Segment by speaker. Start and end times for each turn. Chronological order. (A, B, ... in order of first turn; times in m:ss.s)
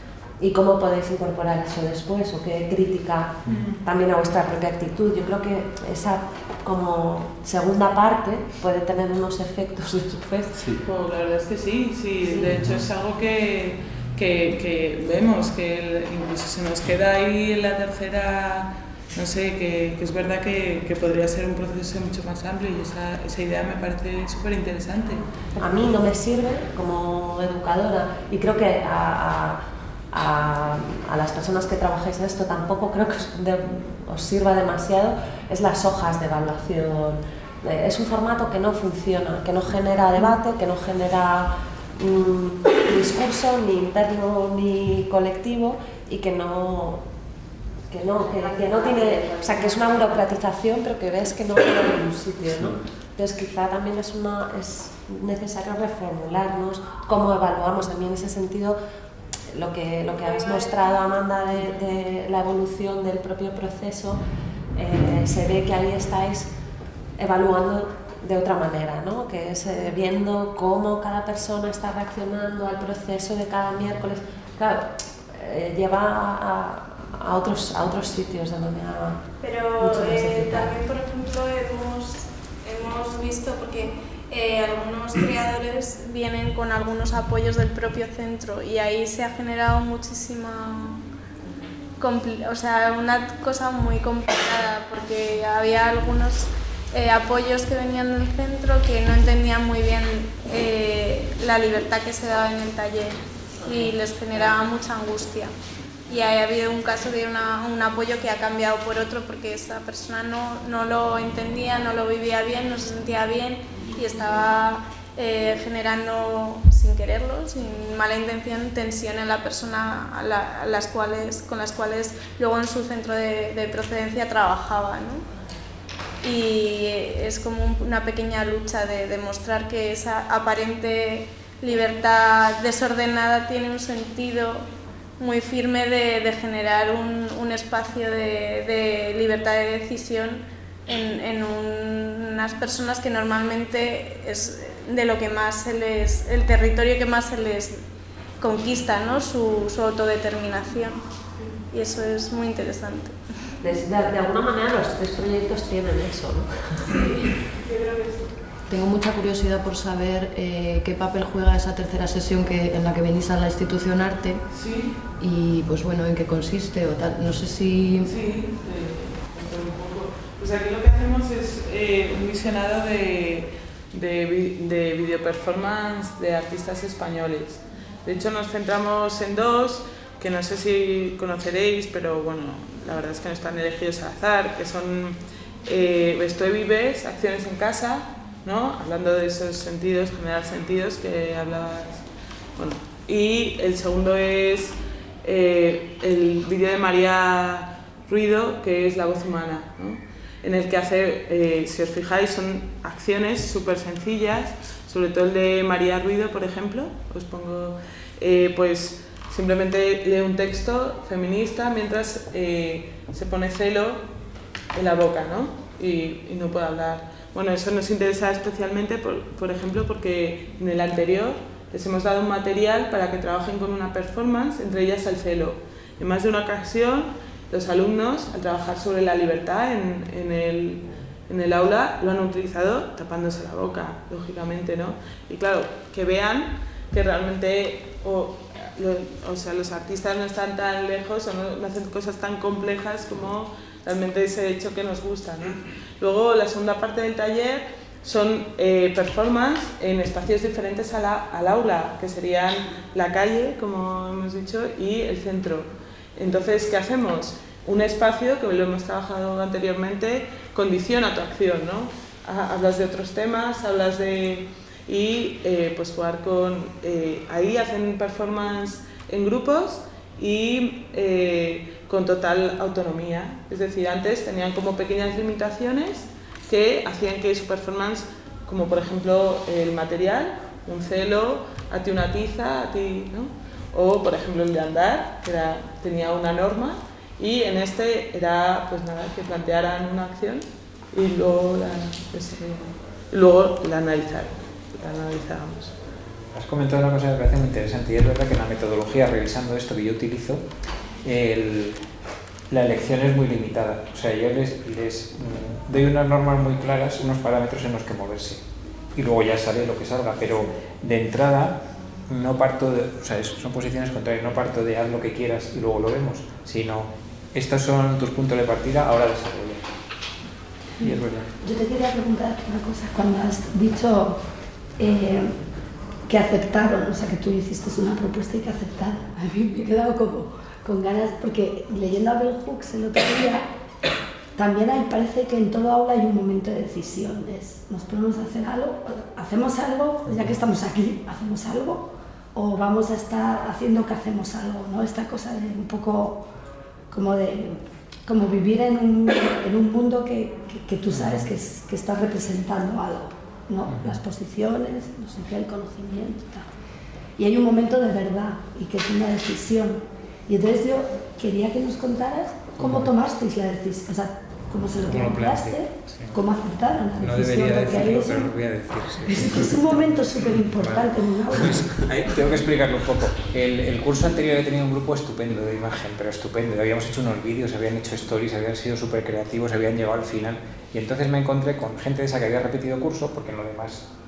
0:00.4-0:10.7 A
0:03.5-0:03.8 B
0:10.7-0:25.9 B
0:25.6-0:47.0 A
0:47.9-0:58.8 A
0:59.5-1:04.2 A
1:00.4-1:00.8 C
1:04.8-1:06.5 A
1:07.2-1:19.2 A
1:19.4-1:31.0 C
1:19.8-1:20.6 D
1:32.0-1:45.5 C
1:46.1-2:05.2 C
2:06.2-2:14.7 C
2:15.2-2:27.8 C
2:28.4-2:31.0 C
2:31.7-2:33.2 C
2:33.6-2:37.0 A
2:37.7-2:38.2 B
2:38.7-2:44.4 E
2:44.5-2:44.9 B
2:45.2-2:48.1 E
2:48.0-3:12.0 B
3:12.6-3:34.0 B
3:34.7-4:55.7 B
4:56.3-5:00.4 F
5:01.0-5:01.8 F
5:02.5-5:08.4 F
5:09.0-5:19.6 F
5:20.8-5:21.3 F
5:21.4-5:24.2 D
5:24.8-5:25.4 D
5:26.1-5:33.4 D
5:34.4-5:46.2 D
5:46.9-5:56.4 D
5:50.9-5:51.2 F
5:53.7-5:54.0 F
5:57.2-6:08.4 D
6:02.6-6:02.9 F
6:04.8-6:06.2 F
6:07.0-6:23.9 F
6:09.0-6:11.7 D